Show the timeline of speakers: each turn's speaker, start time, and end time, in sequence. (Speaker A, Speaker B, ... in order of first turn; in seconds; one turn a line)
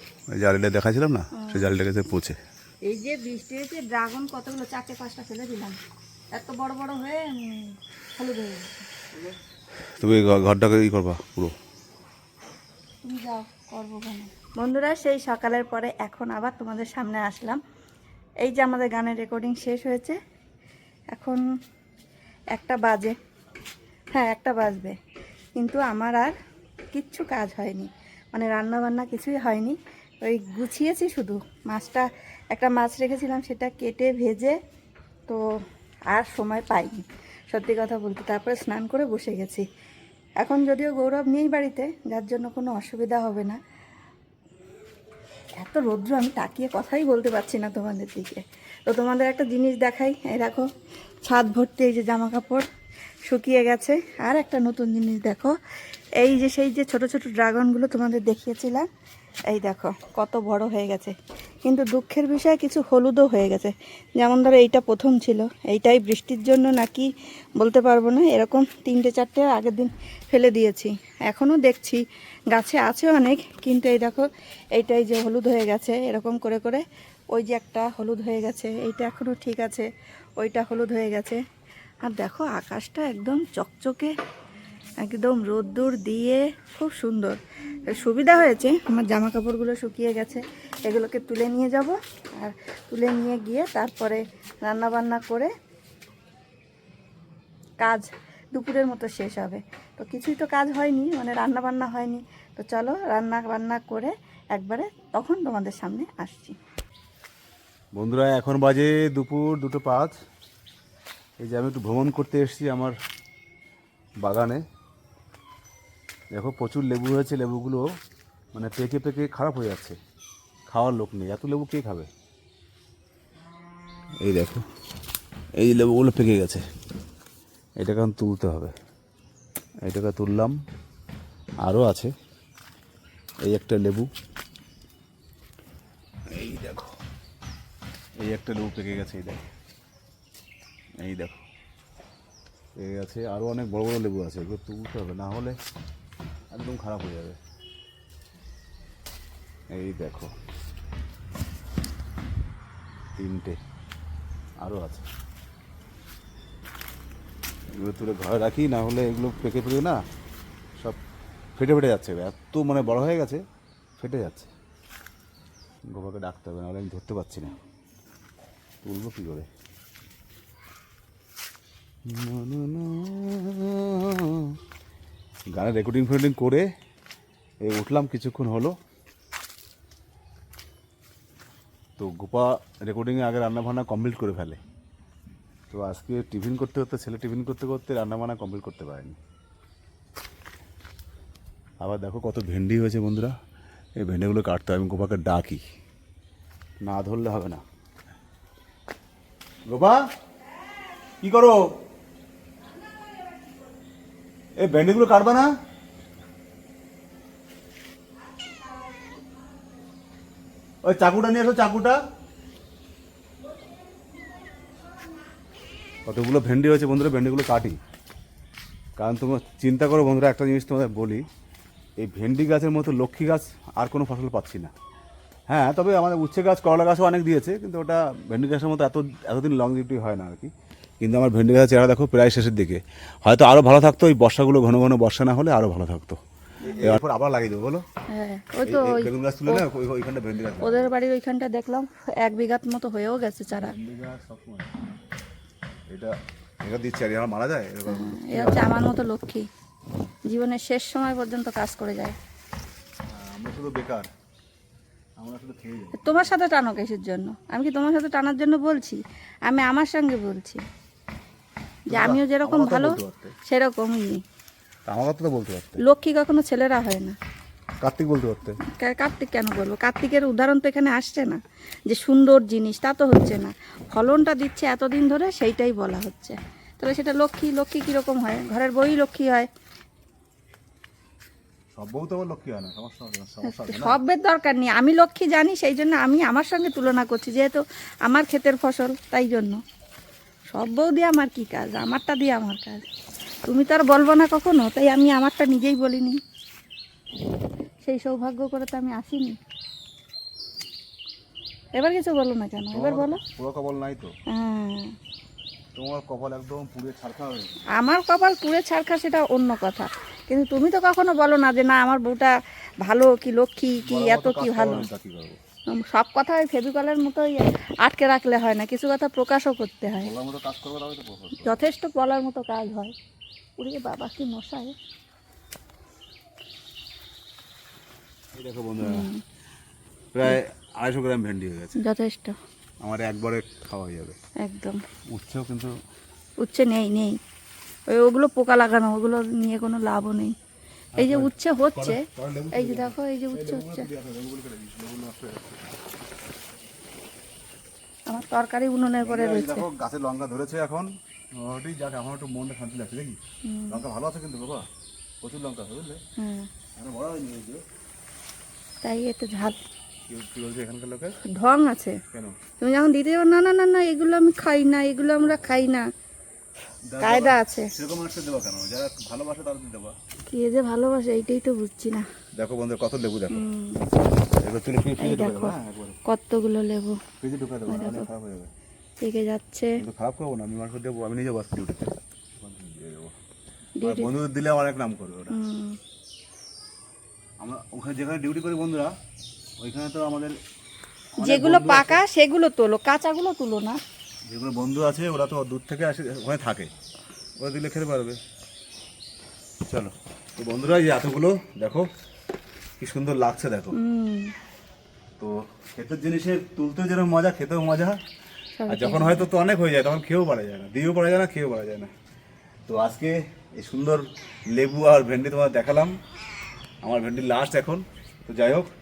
Speaker A: 0.3-2.4
Speaker B: 1.3-1.8
Speaker B: 2.9-5.8
Speaker B: 6.3-9.1
Speaker A: 10.0-11.6
Speaker B: 13.0-17.6
Speaker B: 18.4-20.2
Speaker B: 21.1-21.4
Speaker B: 22.5-23.1
Speaker B: 24.1-25.0
Speaker B: 25.6-26.4
Speaker B: 26.9-34.6
Speaker B: 36.1-39.6
Speaker B: 40.4-43.6
Speaker B: 45.6-50.7
Speaker B: 51.2-52.7
Speaker B: 53.3-55.5
Speaker B: 56.2-58.9
Speaker B: 59.5-61.1
Speaker B: 61.6-79.9
Speaker B: 80.4-81.4
Speaker B: 82.0-84.1
Speaker B: 85.0-87.4
Speaker B: 87.9-95.5
Speaker B: 97.8-106.6
Speaker A: 107.9-110.1
Speaker A: 111.4-113.0
Speaker A: 114.2-114.6
Speaker A: 116.3-117.9
Speaker A: 118.5-120.0
Speaker A: 120.7-122.1
Speaker A: 124.2-124.6
Speaker A: 125.6-126.6
Speaker A: 127.8-128.7
Speaker A: 129.8-130.6
Speaker A: 131.6-132.1
Speaker A: 133.4-134.1
Speaker A: 136.3-136.9
Speaker A: 138.2-139.4
Speaker A: 141.0-141.4
Speaker A: 142.8-145.6
Speaker A: 146.5-147.4
Speaker A: 149.7-150.3
Speaker A: 153.2-153.6
Speaker A: 154.6-155.1
Speaker A: 157.7-160.0
Speaker A: 161.6-163.4
Speaker A: 164.0-164.5
Speaker A: 165.9-167.6
Speaker A: 168.8-169.5
Speaker A: 172.1-174.6
Speaker A: 175.5-176.7
Speaker A: 177.7-178.8
Speaker A: 182.0-184.6
Speaker A: 185.7-189.2
Speaker A: 191.8-193.3
Speaker A: 194.0-195.6
Speaker A: 196.8-197.6
Speaker A: 199.7-200.0
Speaker A: 201.2-201.6
Speaker A: 204.6-205.5
Speaker A: 210.8-212.0
Speaker A: 216.1-217.8
Speaker A: 219.0-221.2
Speaker A: 222.0-224.7
Speaker A: 225.5-237.8
Speaker B: 238.1-239.6
Speaker A: 238.6-240.9
Speaker B: 240.6-243.8
Speaker A: 243.5-244.8
Speaker A: 246.7-248.9
Speaker B: 247.8-249.5
Speaker B: 250.3-252.2
Speaker A: 253.1-254.1
Speaker A: 255.2-256.3
Speaker B: 256.0-260.6
Speaker B: 261.9-264.2
Speaker A: 261.9-263.4
Speaker A: 264.9-265.8
Speaker B: 265.8-267.2
Speaker A: 267.8-268.6
Speaker B: 268.6-279.5
Speaker A: 281.8-284.0
Speaker B: 283.4-289.6
Speaker B: 290.5-292.8
Speaker B: 293.5-296.2
Speaker B: 297.8-299.4
Speaker B: 301.8-303.2
Speaker A: 302.7-304.1
Speaker B: 304.3-304.9
Speaker A: 305.8-307.7
Speaker B: 307.8-314.9
Speaker A: 313.8-315.4
Speaker B: 315.7-320.1
Speaker A: 319.9-321.6
Speaker B: 321.4-322.9
Speaker B: 323.6-324.8
Speaker A: 328.3-329.1
Speaker B: 328.8-329.2
Speaker A: 330.1-331.8
Speaker B: 331.8-332.4
Speaker A: 332.8-334.2
Speaker B: 334.4-334.8
Speaker A: 335.1-335.7
Speaker B: 336.4-337.2
Speaker B: 337.9-340.3
Speaker A: 340.9-345.7
Speaker B: 341.0-343.9
Speaker B: 348.1-349.7
Speaker A: 349.0-353.2
Speaker B: 353.4-353.8
Speaker A: 353.7-354.7
Speaker A: 355.2-356.0
Speaker B: 356.2-356.5
Speaker A: 356.8-357.6
Speaker B: 358.8-359.6
Speaker A: 360.1-361.2
Speaker B: 361.3-362.0
Speaker A: 362.1-362.4
Speaker B: 362.6-365.9
Speaker A: 366.9-369.9
Speaker B: 367.0-367.7
Speaker B: 370.3-372.1
Speaker A: 372.4-373.4
Speaker B: 373.3-373.9
Speaker A: 374.3-376.0
Speaker B: 375.0-377.0
Speaker A: 377.2-378.5
Speaker B: 377.7-378.1
Speaker B: 379.0-379.8
Speaker A: 379.8-383.1
Speaker B: 383.8-384.1
Speaker A: 383.8-385.4
Speaker B: 385.3-385.8
Speaker A: 387.4-388.9
Speaker A: 389.6-390.4
Speaker A: 391.2-392.0
Speaker B: 391.2-393.8
Speaker A: 394.3-396.7
Speaker A: 397.4-398.2
Speaker A: 399.6-401.9
Speaker A: 402.8-403.8
Speaker B: 403.7-404.3
Speaker A: 405.2-408.0
Speaker B: 408.6-409.3
Speaker A: 408.7-411.9
Speaker A: 412.7-416.0
Speaker A: 416.8-418.7